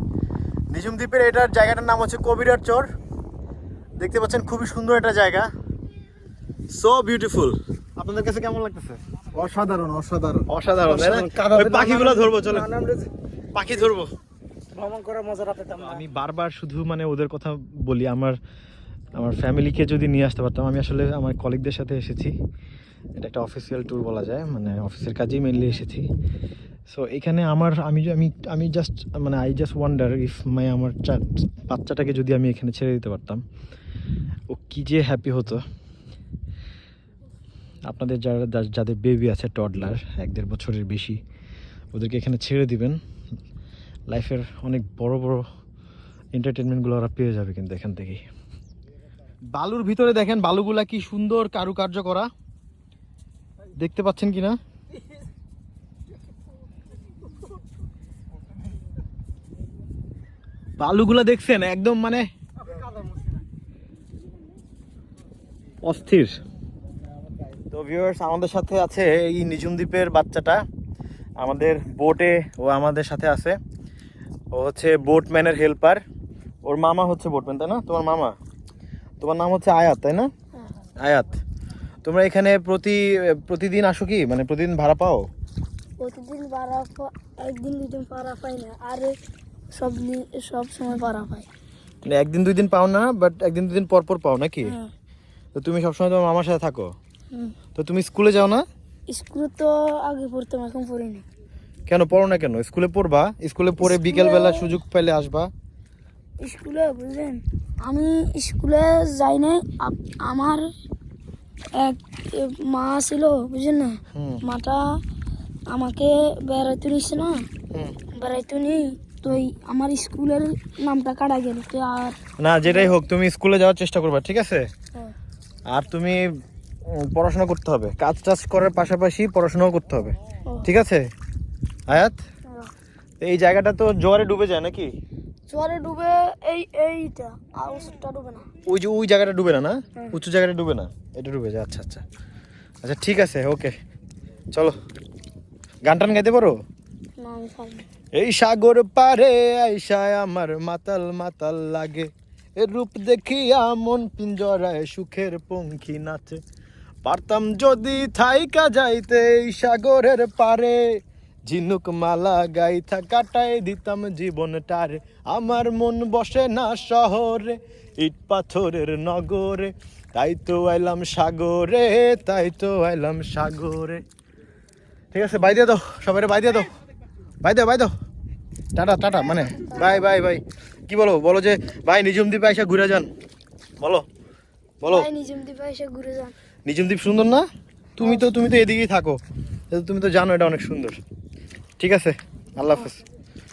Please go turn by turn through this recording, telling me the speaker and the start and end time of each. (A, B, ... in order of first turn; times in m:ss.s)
0:00.7-0:02.9 A
0:04.0-0:05.5 A
0:06.7-0:09.0 A
0:09.3-0:13.1 B
0:10.5-0:12.7 A
0:13.6-0:14.1 A
0:14.7-0:15.9 B
0:15.8-0:18.4 A
0:19.2-0:22.4 A
0:23.2-0:26.1 A
0:26.9-0:33.4 A
0:34.5-0:35.6 A
0:37.9-0:41.2 A
0:41.9-0:43.0 A
0:44.1-0:45.4 A
0:46.4-0:48.2 A
0:49.5-0:52.3 A
0:53.8-0:54.6 A
1:00.8-1:02.3 A
1:05.8-1:06.4 A
1:07.7-1:10.6 A
1:11.4-1:13.6 A
1:14.5-1:16.0 A
1:16.6-1:18.4 A
1:19.2-1:20.3 A
1:21.0-1:21.4 A
1:22.0-1:25.3 A
1:26.0-1:29.2 C
1:29.7-1:31.5 C
1:32.0-1:34.8 A
1:34.6-1:34.9 C
1:35.6-1:36.9 A
1:37.8-1:38.6 A
1:39.1-1:41.2 C
1:41.9-1:45.5 A
1:43.8-1:44.7 C
1:46.4-1:50.7 C
1:51.8-1:54.9 C
1:54.1-1:54.4 A
1:55.7-1:57.4 C
1:58.1-2:02.9 C
2:02.4-2:04.7 A
2:05.7-2:06.2 A
2:07.0-2:11.1 A
2:11.9-2:12.2 A
2:13.2-2:14.9 A
2:15.5-2:18.5 C
2:18.7-2:22.0 A
2:22.8-2:23.7 A
2:25.9-2:26.6 A
2:27.2-2:27.9 C
2:28.1-2:36.4 A
2:37.0-2:54.0 A
2:55.1-2:56.7 A
2:57.4-2:57.9 A
2:58.8-3:03.1 A
2:59.5-3:00.0 C
3:03.8-3:04.0 A
3:04.8-3:05.1 A
3:04.9-3:06.3 C
3:06.7-3:07.4 A
3:08.0-3:09.2 A
3:09.7-3:11.0 A
3:11.8-3:13.0 A